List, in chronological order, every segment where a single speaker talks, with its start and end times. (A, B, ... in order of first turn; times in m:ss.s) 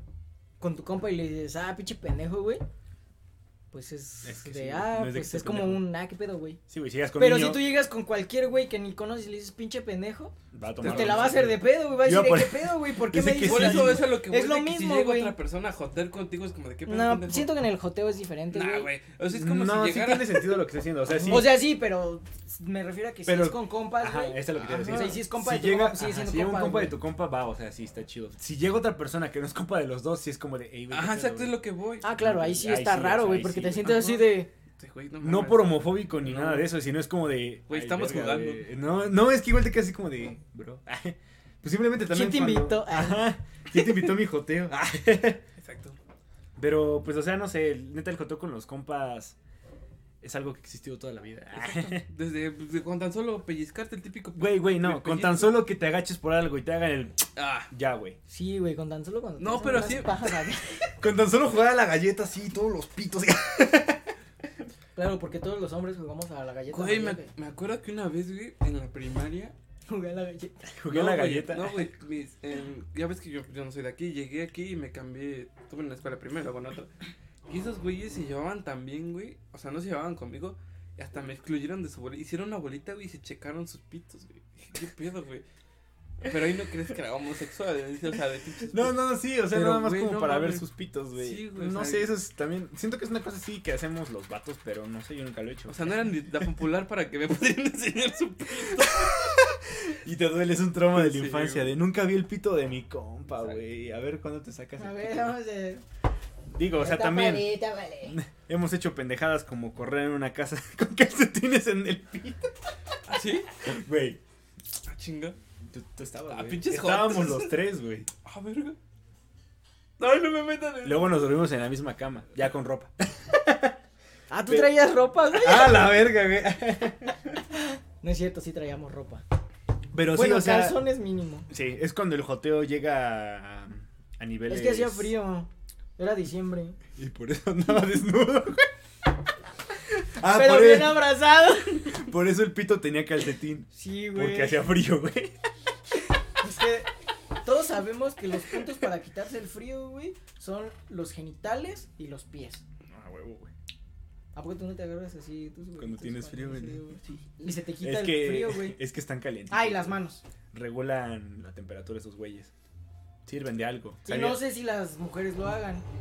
0:00.6-0:02.6 A
0:03.7-0:06.6 A
0:04.2-0:05.8 B
0:06.7-0:07.6 B
0:07.2-0:15.4 A
0:10.5-0:14.1 B
0:10.8-0:11.4 C
0:13.4-0:17.5 C
0:16.9-0:18.9 A
0:18.5-0:20.6 C
0:19.3-0:21.6 B
0:21.2-0:27.0 A
0:23.3-0:31.6 B
0:24.6-0:25.2 C
0:30.9-0:32.1 C
0:32.0-0:34.5 A
0:32.1-0:34.0 B
0:33.8-0:36.7 C
0:35.2-0:45.4 B
0:37.7-0:38.6 C
0:42.1-0:43.3 A
0:45.6-0:46.0 C
0:46.6-0:49.4 B
0:50.2-0:52.0 B
0:51.6-0:55.6 C
0:54.4-0:58.2 B
0:57.4-0:57.7 C
0:58.3-1:00.9 A
0:59.4-1:00.3 C
1:01.0-1:04.1 B
1:05.0-1:07.3 A
1:06.7-1:09.6 C
1:09.9-1:10.7 A
1:10.7-1:11.9 B
1:10.9-1:16.9 C
1:17.5-1:25.4 C
1:26.2-1:29.0 C
1:28.7-1:35.9 B
1:29.5-1:32.1 C
1:35.7-1:39.4 C
1:39.0-1:45.3 B
1:40.9-1:41.7 C
1:44.8-1:45.8 A
1:46.5-1:52.5 B
1:46.8-1:48.2 A
1:53.1-1:53.5 C
1:53.6-1:54.2 B
1:54.9-1:55.4 C
1:55.7-1:58.1 B
1:56.3-1:57.6 C
1:58.2-1:58.8 C
2:00.0-2:01.2 C
2:00.8-2:03.8 B
2:04.3-2:06.0 A
2:04.5-2:04.7 B
2:05.3-2:07.4 B
2:07.5-2:09.2 A
2:09.9-2:10.8 B
2:10.1-2:11.5 A
2:11.5-2:15.1 B
2:14.5-2:16.8 A
2:17.0-2:18.7 B
2:19.9-2:21.1 B
2:20.3-2:22.0 A
2:21.8-2:25.4 B
2:23.7-2:24.6 A
2:26.4-2:26.9 A
2:27.4-2:32.6 A
2:32.9-2:33.5 B
2:34.4-2:38.8 A
2:35.8-2:36.8 B
2:37.8-2:40.0 B
2:39.5-2:40.2 A
2:40.5-2:42.5 B
2:43.3-2:44.4 B
2:44.1-2:45.8 A